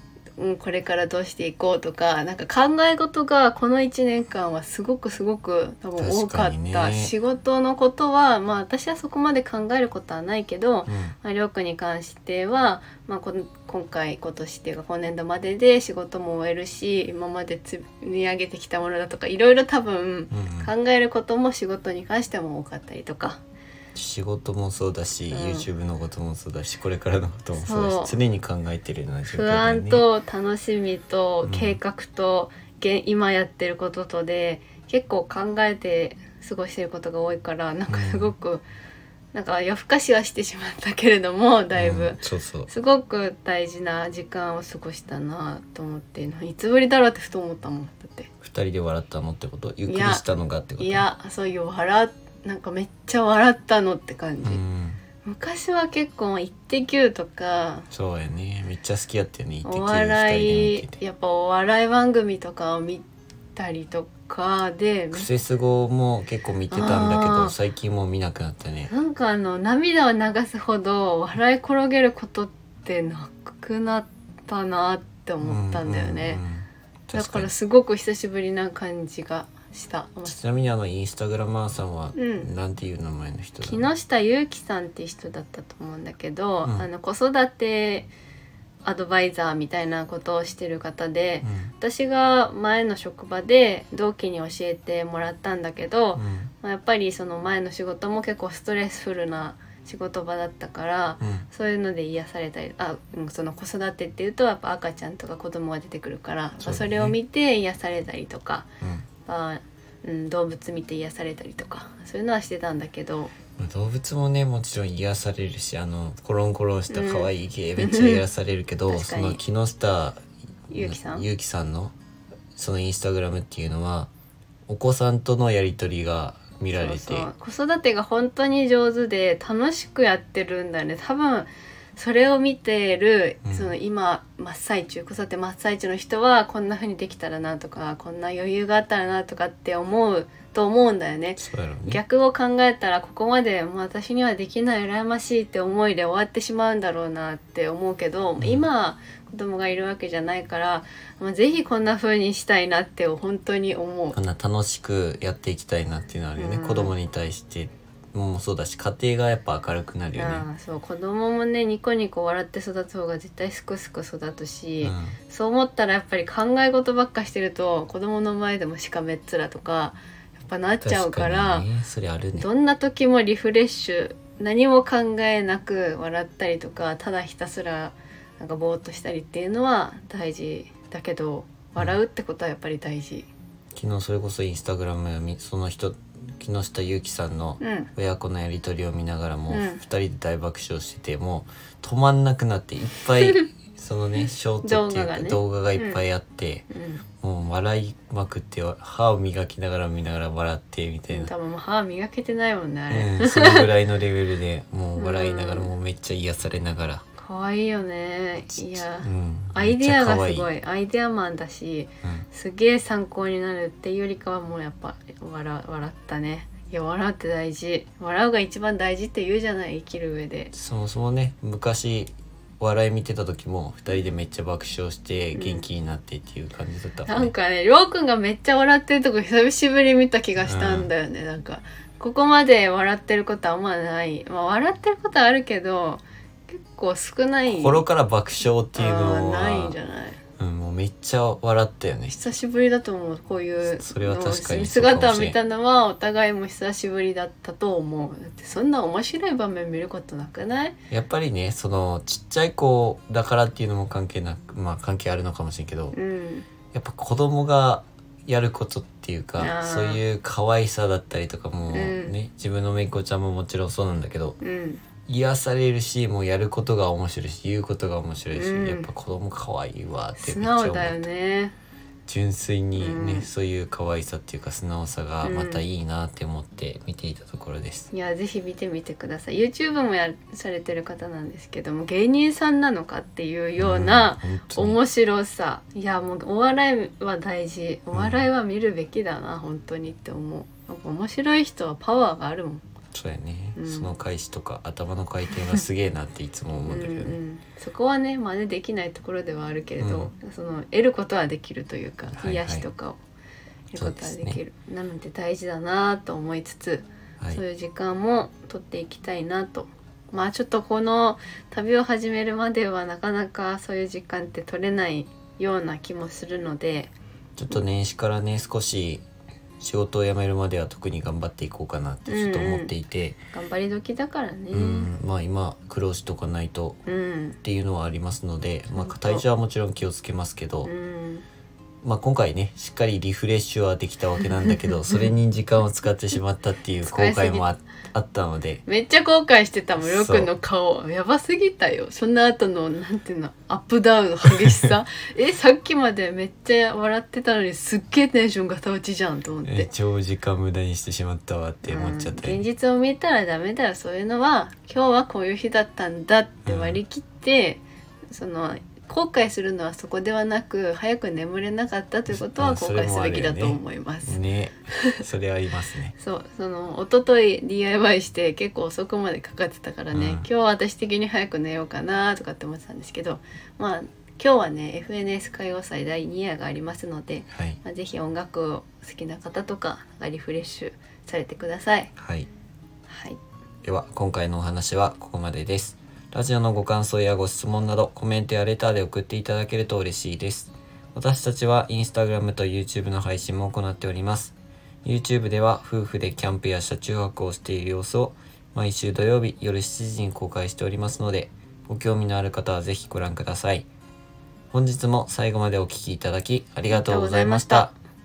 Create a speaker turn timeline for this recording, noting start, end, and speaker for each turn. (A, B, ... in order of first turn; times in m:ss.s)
0:00.4-0:23.4 A
0:06.0-0:07.1 B
0:10.9-0:11.1 B
0:20.3-0:20.7 B
0:23.9-0:30.0 B
0:25.3-0:25.7 A
0:27.6-0:28.1 A
0:29.3-0:38.6 A
0:31.4-0:31.8 B
0:37.9-0:38.3 B
0:39.3-0:48.3 A
0:41.7-0:42.7 B
0:48.4-0:51.0 B
0:49.9-0:50.2 A
0:50.8-0:54.6 A
0:54.4-0:55.0 B
0:55.2-0:57.9 A
0:57.9-1:01.0 B
0:59.6-1:05.2 A
1:05.1-1:08.9 B
1:06.7-1:07.5 A
1:08.9-1:16.4 A
1:15.4-1:17.5 B
1:17.1-1:20.4 A
1:20.2-1:23.8 B
1:22.1-1:22.5 A
1:23.6-1:28.1 A
1:28.8-1:48.7 A
1:31.4-1:31.7 B
1:36.1-1:36.5 B
1:41.2-1:41.4 B
1:46.6-1:47.2 B
1:48.8-1:49.1 B
1:49.2-1:53.3 A
1:53.6-2:01.9 B
1:56.9-1:58.2 A
1:58.9-1:59.4 A
2:00.7-2:01.2 A
2:02.6-2:04.1 B
2:04.7-2:07.3 B
2:06.7-2:34.2 A
2:13.4-2:13.7 B
2:21.4-2:22.0 B
2:28.4-2:28.7 B
2:34.1-2:40.4 B
2:36.4-2:36.9 A
2:40.1-2:51.7 A
2:44.8-2:45.2 B
2:50.8-2:52.5 B
2:52.3-3:03.3 A
3:03.7-3:16.7 B
3:07.6-3:07.9 A
3:09.5-3:09.8 A
3:14.6-3:16.0 A
3:16.7-3:17.0 A
3:17.2-3:21.3 B
3:21.1-3:23.7 A
3:22.9-3:27.0 B
3:25.0-3:25.7 A
3:27.2-3:40.5 A
3:28.7-3:30.5 B
3:40.5-3:47.3 B
3:45.3-3:45.6 A
3:47.1-3:57.8 A
3:50.4-3:50.9 B
3:57.5-3:59.8 B
3:58.7-4:00.2 A
4:00.4-4:02.2 B
4:02.1-4:10.8 A
4:03.6-4:05.4 B
4:10.9-4:16.0 B
4:15.9-4:16.4 A
4:16.7-4:24.4 B
4:19.4-4:20.0 A
4:21.7-4:22.1 A
4:24.4-4:24.8 A
4:25.1-4:31.0 B
4:28.3-4:28.9 A
4:30.2-4:31.5 A
4:32.1-4:37.9 B
4:32.8-4:33.3 A
4:35.2-4:35.6 A
4:37.9-4:52.6 A
4:43.6-4:44.8 B
4:47.9-4:48.2 B
4:52.9-4:57.2 B
4:53.6-4:53.9 A
4:56.6-5:03.0 A
4:59.8-5:00.1 B
5:02.1-5:02.6 B
5:03.7-5:16.9 A
5:03.8-5:04.4 B
5:17.4-5:19.0 B
5:19.6-5:23.2 B
5:22.1-5:22.7 A
5:23.3-5:24.9 A
5:24.5-5:26.8 B
5:26.8-5:27.4 A
5:27.4-5:30.7 B
5:28.8-5:29.2 A
5:30.6-5:31.2 A
5:31.8-5:38.6 B
5:34.4-5:35.1 A
5:36.8-5:37.4 A
5:38.6-5:49.7 A
5:39.8-5:40.3 B
5:49.4-5:52.4 B
5:51.6-6:04.2 A
5:56.4-5:56.8 B
6:02.1-6:05.9 B
6:04.7-6:05.0 A
6:06.0-6:21.9 A
6:09.9-6:10.2 B
6:17.3-6:17.6 B
6:22.0-6:22.3 B
6:22.9-6:23.2 A
6:23.6-6:43.7 B
6:44.5-6:47.7 B
6:46.7-6:47.7 A